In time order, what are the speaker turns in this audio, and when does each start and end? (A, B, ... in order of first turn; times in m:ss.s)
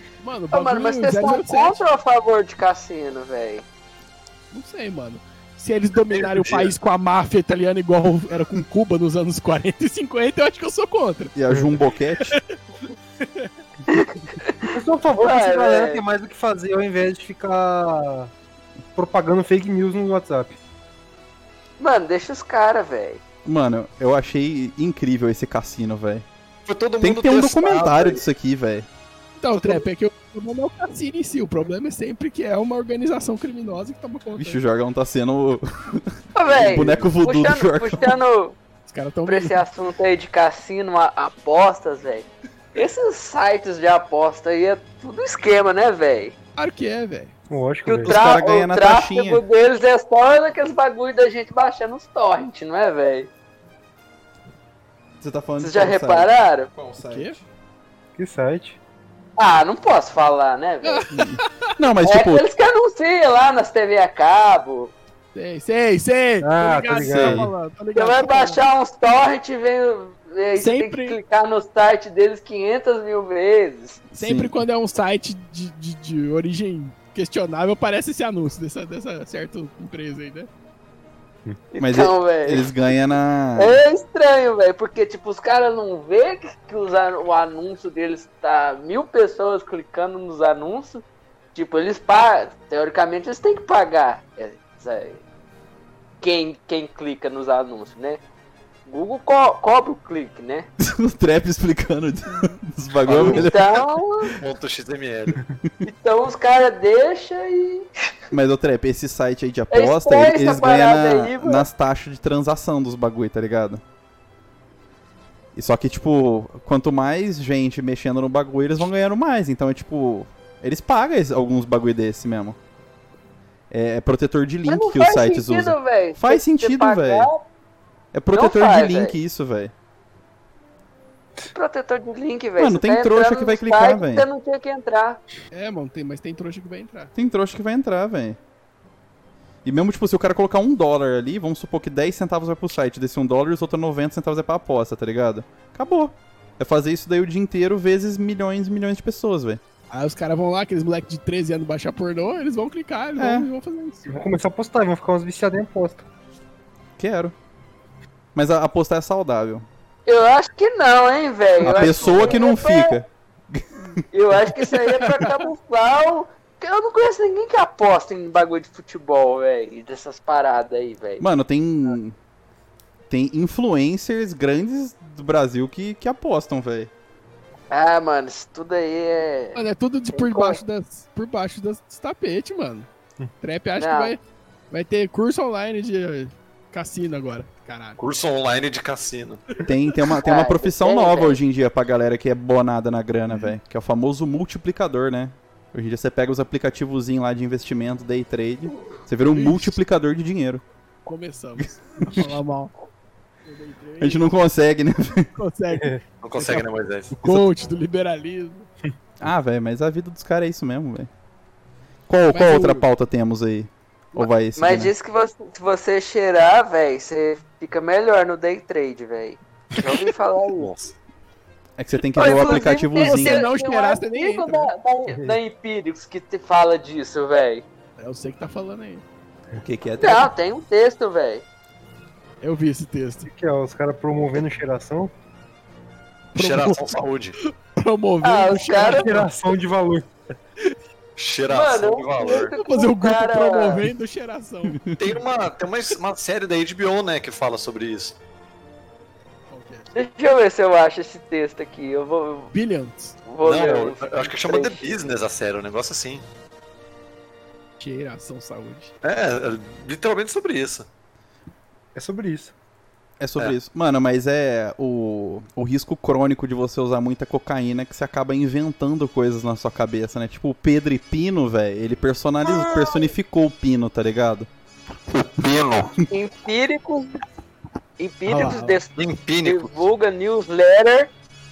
0:00.2-0:01.8 A
0:00.5-0:03.6 B
0:04.5-0:11.3 A
0:06.1-0:06.7 C
0:11.3-0:12.4 D
0:13.2-0:13.5 A
0:13.9-0:16.0 B
0:14.7-0:18.3 E
0:19.0-0:20.6 E
0:21.8-0:23.2 B
0:23.4-0:26.2 D
0:26.6-0:28.2 C
0:27.0-0:28.9 D
0:29.4-0:34.6 A
0:34.4-0:38.2 D
0:36.3-0:38.6 B
0:38.9-0:39.6 A
0:39.2-0:46.3 B
0:46.6-0:47.3 A
0:47.5-0:48.2 E
0:47.8-0:53.3 B
0:48.0-0:49.4 D
0:55.2-0:57.4 D
0:55.6-0:56.7 B
0:57.0-0:57.3 A
0:58.2-0:58.8 E
0:59.4-1:01.0 B
1:00.8-1:01.7 A
1:01.1-1:02.4 D
1:02.0-1:04.9 B
1:05.3-1:08.6 A
1:06.4-1:07.5 E
1:07.0-1:07.5 D
1:07.9-1:14.0 B
1:10.6-1:11.2 A
1:14.1-1:14.5 D
1:14.1-1:20.5 A
1:21.7-1:22.7 B
1:21.8-1:23.8 D
1:23.6-1:31.0 B
1:31.5-1:35.2 B
1:36.2-1:38.2 B
1:38.8-1:40.7 B
1:40.8-1:43.8 D
1:43.0-1:43.5 C
1:43.2-1:44.3 B
1:44.4-1:45.4 C
1:45.8-1:47.9 B
1:48.3-1:53.8 D
1:49.7-1:51.6 B
1:55.5-2:02.6 D
2:03.7-2:07.3 D
2:04.6-2:07.4 B
2:08.1-2:09.7 D
2:08.3-2:09.2 B
2:11.5-2:15.2 B
2:12.6-2:14.2 D
2:15.5-2:17.1 A
2:17.1-2:18.4 D
2:19.6-2:29.6 D
2:29.9-2:34.2 A
2:33.2-2:33.5 D
2:34.1-2:36.0 E
2:37.0-2:37.3 D
2:38.3-2:39.6 D
2:40.0-2:43.0 B
2:41.6-2:44.0 D
2:44.1-2:51.2 B
2:51.2-2:52.2 D
2:53.1-2:56.9 D
2:57.7-2:59.6 B
2:59.5-3:02.9 A
3:00.1-3:00.6 B
3:03.4-3:04.2 A
3:03.8-3:04.1 B
3:04.7-3:08.0 A
3:08.0-3:09.4 C
3:09.6-3:20.6 D
3:10.2-3:11.4 B
3:19.3-3:19.8 A
3:21.0-3:22.7 A
3:21.6-3:22.3 D
3:23.4-3:24.3 A
3:24.0-3:25.3 D
3:25.4-3:28.7 A
3:26.2-3:27.3 C
3:29.2-3:31.1 D
3:32.1-3:34.9 D
3:32.3-3:32.8 A
3:34.6-3:40.7 B
3:40.6-3:40.9 C
3:41.8-3:43.4 D
3:42.1-3:47.6 B
3:42.4-3:44.7 A
3:45.1-3:45.4 E
3:48.0-3:49.0 A
3:49.6-3:50.3 D
3:50.0-3:51.4 B
3:52.4-3:53.3 A
3:53.2-3:55.1 E
3:56.3-3:57.4 C
3:56.3-3:59.2 A
3:58.2-3:59.2 B
3:58.8-4:00.1 E
4:01.2-4:02.5 C
4:01.5-4:03.8 B
4:02.3-4:04.8 A
4:05.0-4:08.2 C
4:09.5-4:09.9 A
4:09.9-4:12.5 B
4:12.5-4:13.2 A
4:13.3-4:14.9 B
4:13.4-4:16.2 C
4:17.8-4:18.9 A
4:19.0-4:20.9 C
4:21.9-4:22.5 E
4:23.2-4:34.5 D
4:32.5-4:33.1 B
4:35.1-4:35.9 C
4:36.1-4:37.2 B
4:38.0-4:41.1 B
4:38.2-4:38.8 A
4:39.0-4:39.8 C